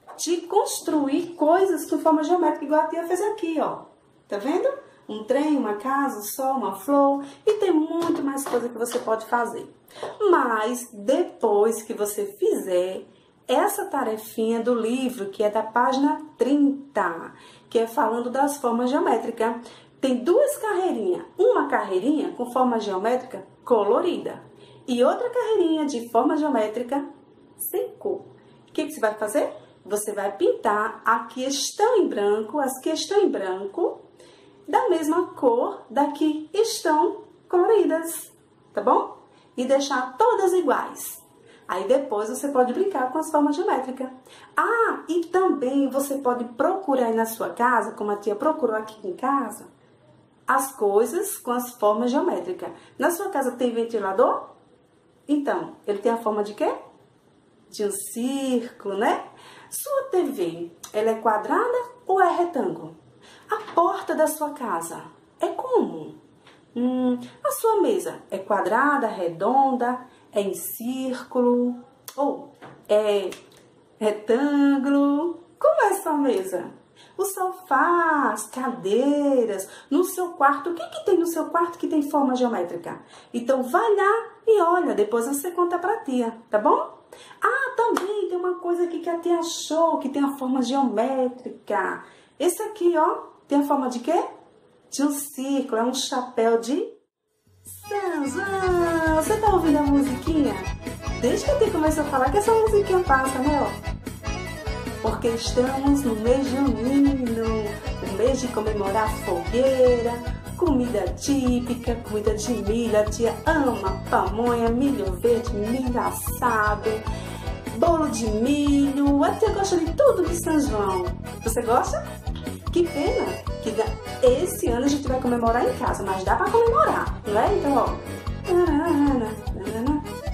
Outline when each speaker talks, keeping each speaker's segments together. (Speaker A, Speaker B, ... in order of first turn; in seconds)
Speaker A: 0.2-27.1, 27.6-34.0, 34.7-49.7, 50.5-54.5, 55.3-56.8, 57.7-63.0, 63.5-66.2, 66.7-73.4, 74.0-94.3, 94.9-97.0, 97.7-103.8, 105.0-117.0, 117.7-122.0, 122.7-130.1